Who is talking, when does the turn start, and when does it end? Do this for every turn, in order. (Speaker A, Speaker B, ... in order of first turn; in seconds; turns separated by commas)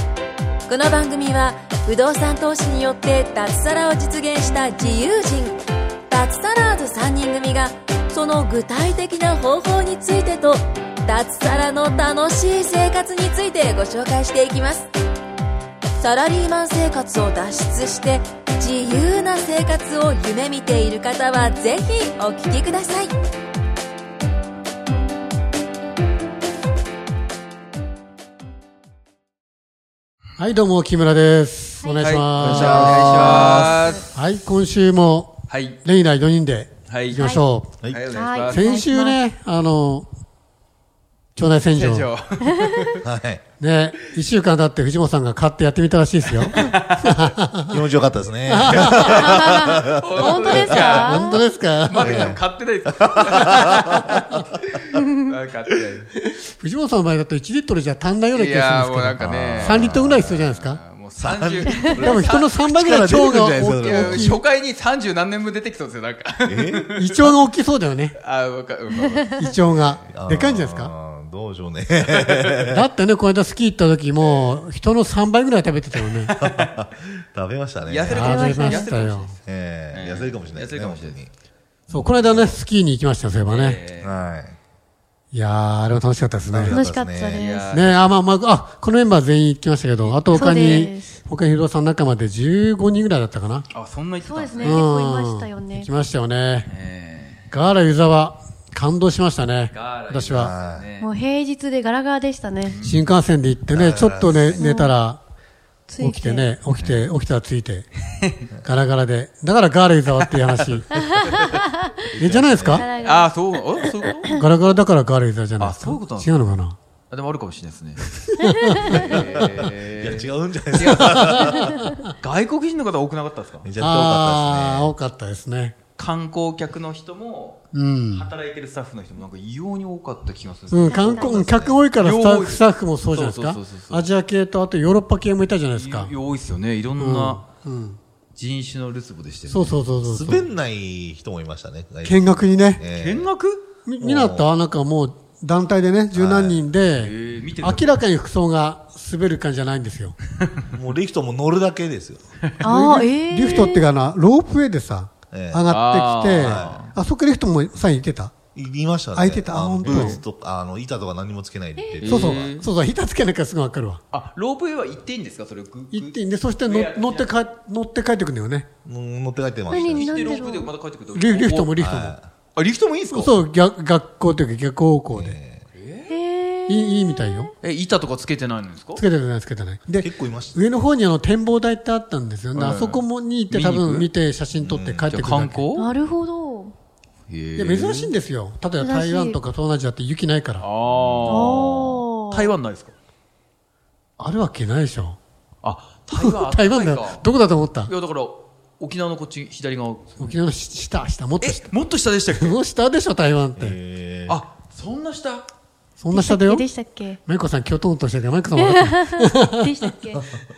Speaker A: 0.7-14.9, Speaker A: 16.0-23.1, Speaker B: 30.4-37.8, Speaker C: 31.8-32.2, Speaker D: 32.0-34.2, Speaker E: 32.4-33.9, Speaker C: 33.1-34.0, Speaker D: 35.5-35.8, Speaker D: 36.9-37.4, Speaker C: 37.2-37.5, Speaker D: 37.9-38.7, Speaker C: 38.1-39.2, Speaker B: 38.4-40.1, Speaker B: 41.4-42.1, Speaker D: 41.7-43.0, Speaker C: 42.4-43.0, Speaker E: 43.0-43.4, Speaker B: 43.6-47.8, Speaker D: 46.3-47.3, Speaker E: 47.7-51.0, Speaker B: 48.5-49.4, Speaker D: 48.9-56.1, Speaker C: 49.1-51.5, Speaker B: 51.0-52.4, Speaker E: 52.0-54.4, Speaker B: 53.6-54.3, Speaker B: 56.2-60.8, Speaker D: 58.3-67.4, Speaker E: 59.2-60.5, Speaker E: 61.2-64.3, Speaker B: 61.9-64.4, Speaker E: 66.5-66.9, Speaker B: 67.0-68.2, Speaker D: 68.2-70.1, Speaker B: 69.4-70.9, Speaker E: 70.1-72.8, Speaker D: 72.0-72.6, Speaker B: 72.6-76.4, Speaker D: 76.0-76.7, Speaker E: 76.4-78.3, Speaker D: 77.8-81.3, Speaker B: 78.1-79.3, Speaker C: 78.2-78.9, Speaker E: 79.5-81.3, Speaker E: 81.9-82.6, Speaker B: 81.9-83.8, Speaker D: 83.4-84.2, Speaker E: 84.0-84.6, Speaker B: 85.3-86.8, Speaker E: 86.5-87.5, Speaker C: 86.7-87.8, Speaker D: 87.3-88.2, Speaker B: 87.7-93.7, Speaker D: 90.0-90.9, Speaker C: 90.3-91.2, Speaker D: 93.7-94.8, Speaker C: 94.2-95.9, Speaker B: 94.6-96.7, Speaker D: 96.7-97.4, Speaker B: 97.5-100.5, Speaker D: 99.7-101.1, Speaker E: 100.3-100.9, Speaker C: 101.0-102.8, Speaker D: 102.6-103.1, Speaker B: 102.8-105.2, Speaker E: 103.7-104.6, Speaker C: 104.6-105.0, Speaker C: 105.9-106.5, Speaker B: 106.0-107.9, Speaker D: 106.8-107.0, Speaker B: 108.6-111.1, Speaker C: 110.9-112.0, Speaker E: 112.1-112.9, Speaker B: 112.2-112.9, Speaker C: 112.7-114.5, Speaker D: 112.9-114.4, Speaker B: 114.4-116.8, Speaker D: 115.6-116.6, Speaker D: 117.1-118.1, Speaker B: 118.2-119.1, Speaker C: 118.4-119.2, Speaker D: 118.9-123.7, Speaker E: 119.1-121.9, Speaker B: 120.8-122.1, Speaker E: 123.6-124.9, Speaker B: 123.8-125.8, Speaker D: 126.0-134.1, Speaker B: 127.7-128.3, Speaker B: 130.7-136.1, Speaker C: 130.8-131.5, Speaker E: 131.4-131.8, Speaker D: 135.7-137.4, Speaker B: 137.0-138.0, Speaker D: 138.3-139.9, Speaker B: 139.5-140.5, Speaker E: 140.0-143.3, Speaker B: 142.0-142.8, Speaker D: 142.9-143.7, Speaker B: 143.9-150.2, Speaker E: 144.0-144.5, Speaker E: 146.1-146.6, Speaker D: 146.9-148.0, Speaker E: 150.7-152.2, Speaker C: 152.6-153.9, Speaker B: 152.6-158.4, Speaker E: 155.3-155.7, Speaker D: 155.7-156.9, Speaker E: 156.3-156.8, Speaker E: 158.5-162.5, Speaker B: 159.1-160.2, Speaker D: 159.8-160.2, Speaker C: 161.8-162.2, Speaker D: 162.0-162.7, Speaker B: 162.0-164.0, Speaker D: 164.1-167.3, Speaker B: 165.9-168.7, Speaker E: 168.8-170.5, Speaker C: 169.7-170.7, Speaker D: 169.8-171.8, Speaker B: 171.1-172.2, Speaker E: 171.8-172.3, Speaker D: 172.6-173.3, Speaker B: 173.1-175.4, Speaker E: 175.1-175.6, Speaker D: 175.7-176.1, Speaker C: 176.1-177.5, Speaker B: 176.7-177.5, Speaker D: 177.6-179.0, Speaker B: 179.0-185.7, Speaker E: 180.0-180.7, Speaker D: 182.6-184.1, Speaker E: 184.6-185.2, Speaker D: 185.0-185.9, Speaker C: 185.8-186.7, Speaker D: 187.3-188.1, Speaker B: 187.6-190.7, Speaker C: 188.8-189.4, Speaker D: 190.6-192.9, Speaker E: 190.9-192.0, Speaker C: 191.3-192.6, Speaker B: 194.2-195.2, Speaker D: 195.6-197.2, Speaker B: 196.1-197.9, Speaker D: 197.8-200.4, Speaker B: 200.2-201.7, Speaker D: 201.4-202.6, Speaker B: 202.3-203.8, Speaker E: 203.6-204.4, Speaker D: 204.3-205.5, Speaker B: 206.0-206.7, Speaker C: 206.1-207.2, Speaker B: 207.3-209.7, Speaker C: 208.6-210.3